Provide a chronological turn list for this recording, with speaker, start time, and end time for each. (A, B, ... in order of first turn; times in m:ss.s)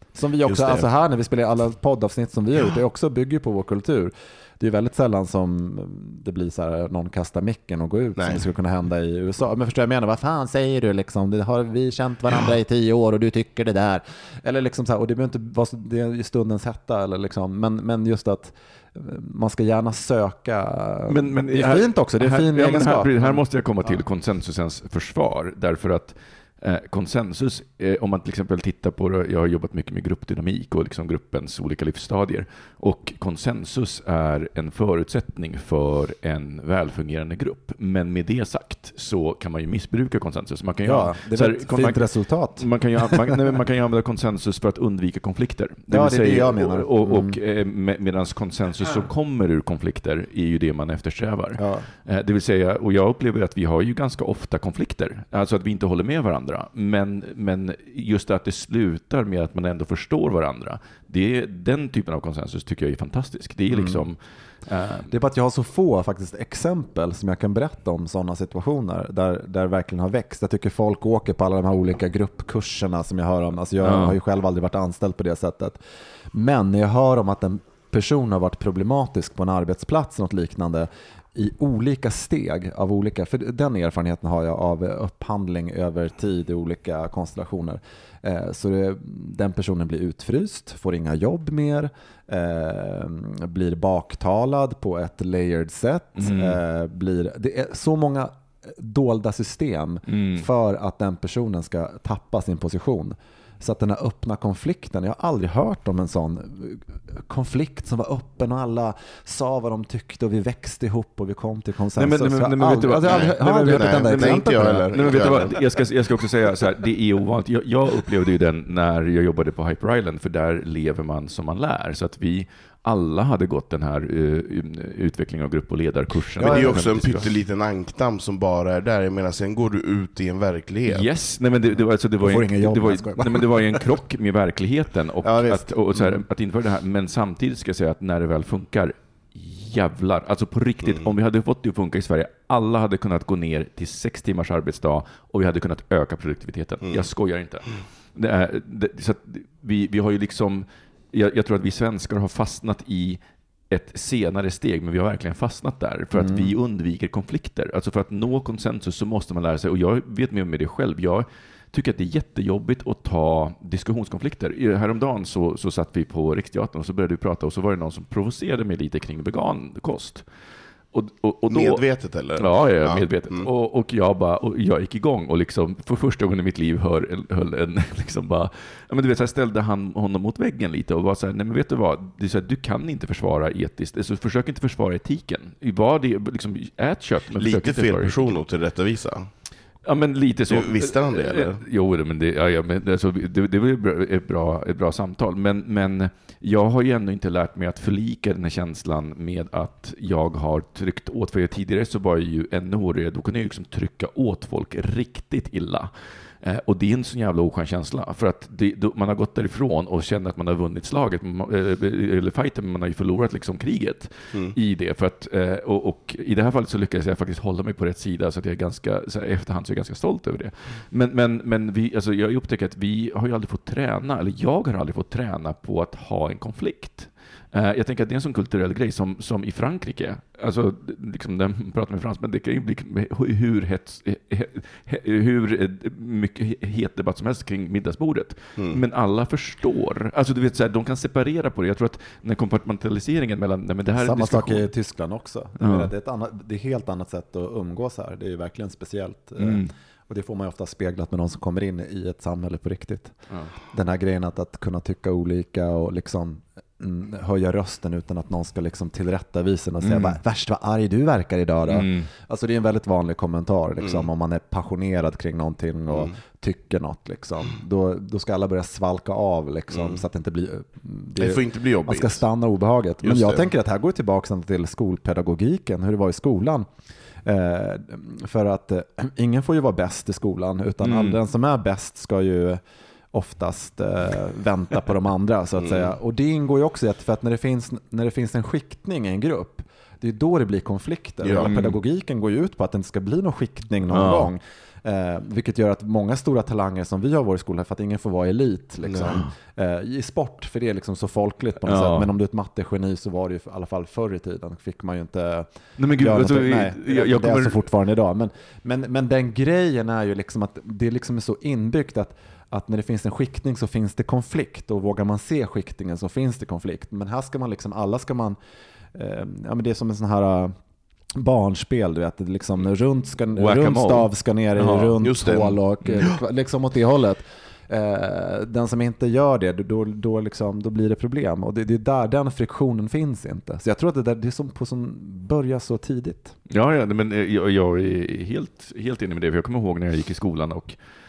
0:00.2-0:24.0 A
0:00.5-0:00.9 B
0:08.2-0:08.4 B
0:21.1-1:05.1 C
0:40.8-0:43.4 A
0:45.9-0:47.4 A
0:51.6-0:51.9 A
1:03.7-1:04.0 A
1:05.1-1:15.8 A
1:13.8-1:14.2 C
1:16.3-1:55.5 A
1:36.2-1:36.6 C
1:40.1-1:40.5 C
1:52.0-2:07.3 C
1:53.0-1:55.6 B
2:06.4-2:11.1 B
2:06.4-2:07.1 A
2:10.9-2:33.2 C
2:12.2-2:13.9 A
2:15.3-2:16.2 A
2:33.7-2:50.2 C
2:36.1-2:36.5 A
2:50.9-2:51.8 C
2:51.5-2:53.5 B
2:52.4-3:08.4 C
3:07.4-3:09.3 B
3:09.8-3:25.9 C
3:10.5-3:11.6 B
3:26.4-4:04.7 C
4:03.9-4:13.2 A
4:05.6-4:05.9 C
4:09.4-4:09.7 C
4:13.7-4:36.7 A
4:19.8-4:20.2 C
4:21.7-4:22.1 C
4:23.8-4:24.1 B
4:25.9-4:26.1 B
4:29.7-4:30.0 B
4:31.2-4:32.2 B
4:33.0-4:33.5 B
4:37.2-4:42.6 A
4:40.8-4:41.2 C
4:43.1-5:18.4 A
4:45.6-4:46.0 B
4:51.2-4:51.6 B
4:51.4-4:51.7 C
4:53.9-4:54.3 C
4:58.8-4:59.2 B
5:01.6-5:02.1 C
5:05.8-5:07.7 C
5:19.0-5:20.6 A
5:21.2-5:36.4 A
5:23.3-5:25.0 C
5:25.0-5:26.2 B
5:36.5-5:40.8 C